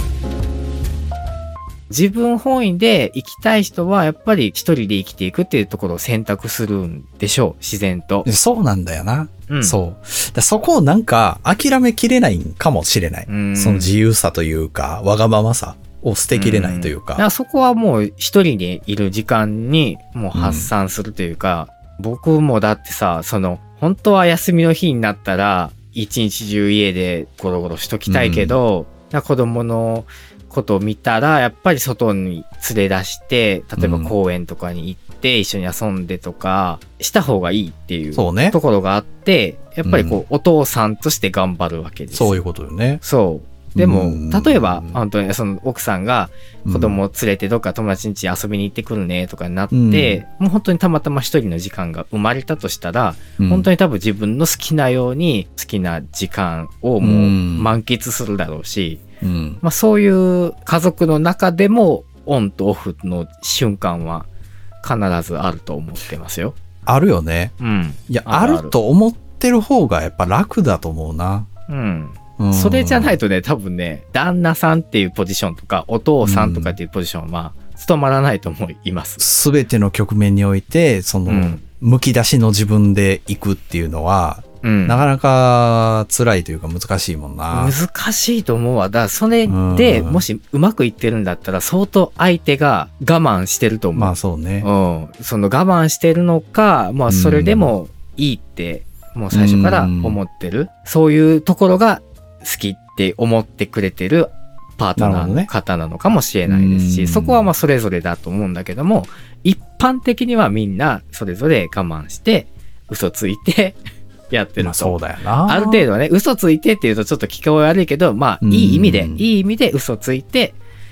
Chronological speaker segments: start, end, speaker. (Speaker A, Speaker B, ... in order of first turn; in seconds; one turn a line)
Speaker A: 1.9-8.3
Speaker B: 8.2-17.2
Speaker A: 9.5-9.8
Speaker A: 13.3-13.9
Speaker A: 16.3-42.4
Speaker B: 20.3-20.7
Speaker B: 28.1-28.6
Speaker B: 33.8-34.1
Speaker B: 38.1-38.6
Speaker B: 39.9-40.2
Speaker B: 42.1-43.0
Speaker A: 43.0-59.0
Speaker B: 43.8-45.0
Speaker B: 46.6-47.0
Speaker B: 49.7-50.2
Speaker B: 53.4-53.7
Speaker B: 57.0-57.8
Speaker B: 59.2-59.6
Speaker A: 59.6-64.3
Speaker A: 64.8-66.6
Speaker B: 66.9-67.5
Speaker A: 67.6-68.8
Speaker B: 68.1-71.5
Speaker A: 71.7-79.2
Speaker B: 72.4-73.2
Speaker B: 76.2-76.8
Speaker B: 79.2-87.8
Speaker A: 81.3-81.6
Speaker A: 84.6-85.0
Speaker A: 87.5-113.8
Speaker B: 89.5-90.2
Speaker B: 94.0-94.7
Speaker B: 97.1-97.7
Speaker B: 99.3-100.2
Speaker B: 105.0-105.5
Speaker B: 106.5-107.5
Speaker A: 114.3-120.6
Speaker B: 114.6-115.9
Speaker B: 118.4-119.3